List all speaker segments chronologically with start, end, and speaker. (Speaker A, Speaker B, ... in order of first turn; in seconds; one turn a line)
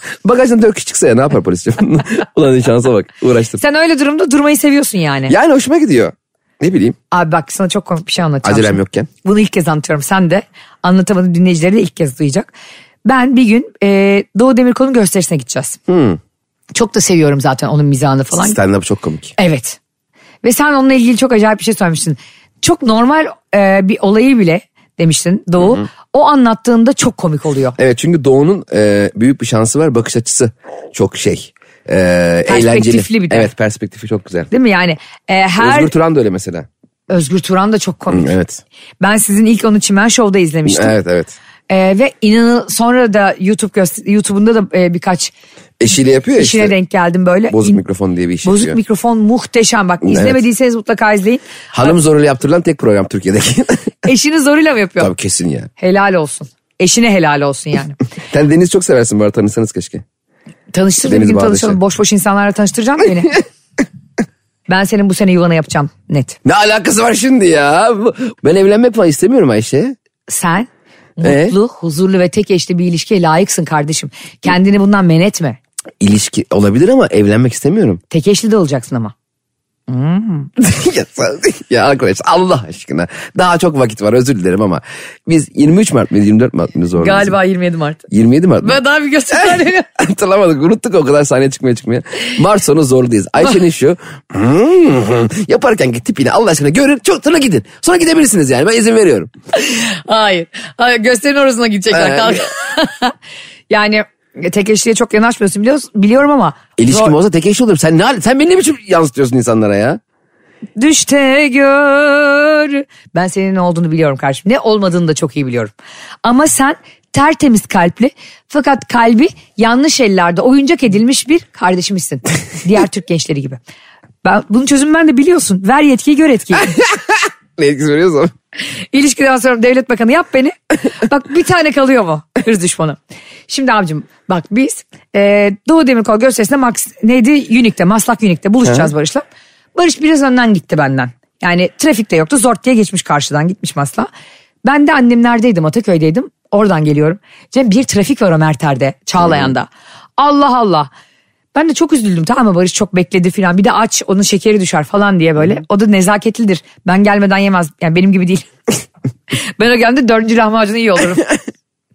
Speaker A: 0.2-3.6
Speaker B: 3.6-5.3
Speaker A: 5.3-7.0
Speaker B: 7.1-12.5
Speaker A: 8.4-9.1
Speaker B: 13.1-15.8
Speaker A: 15.9-16.2
Speaker B: 16.8-18.6
Speaker A: 18.4-19.4
Speaker B: 19.4-19.8
Speaker B: 20.4-27.8
Speaker A: 27.8-34.5
Speaker B: 32.5-33.5
Speaker B: 34.5-35.9
Speaker A: 35.6-36.7
Speaker B: 37.1-38.3
Speaker A: 38.1-38.6
Speaker B: 39.0-40.9
Speaker A: 40.6-41.4
Speaker B: 41.7-45.3
Speaker A: 45.8-46.7
Speaker B: 46.4-47.8
Speaker A: 47.5-48.8
Speaker B: 48.4-51.9
Speaker A: 50.0-50.4
Speaker A: 51.7-53.9
Speaker B: 54.0-55.1
Speaker A: 55.0-55.7
Speaker B: 55.8-58.0
Speaker A: 58.3-60.0
Speaker B: 60.7-63.4
Speaker A: 61.0-61.8
Speaker B: 64.7-66.4
Speaker A: 66.4-69.9
Speaker B: 70.3-75.6
Speaker A: 71.2-71.6
Speaker A: 76.0-78.0
Speaker B: 78.1-79.1
Speaker B: 79.9-80.5
Speaker A: 80.6-87.3
Speaker B: 87.0-88.0
Speaker A: 88.1-88.8
Speaker B: 88.6-89.9
Speaker A: 89.3-99.3
Speaker B: 99.5-103.1
Speaker A: 101.9-102.5
Speaker B: 103.7-107.1
Speaker A: 106.8-110.0
Speaker B: 110.8-115.7
Speaker B: 116.2-123.6
Speaker B: 124.2-126.8
Speaker A: 126.7-128.3
Speaker B: 128.9-144.1
Speaker A: 138.6-138.9
Speaker B: 144.6-150.9
Speaker B: 151.6-158.5
Speaker B: 159.3-161.3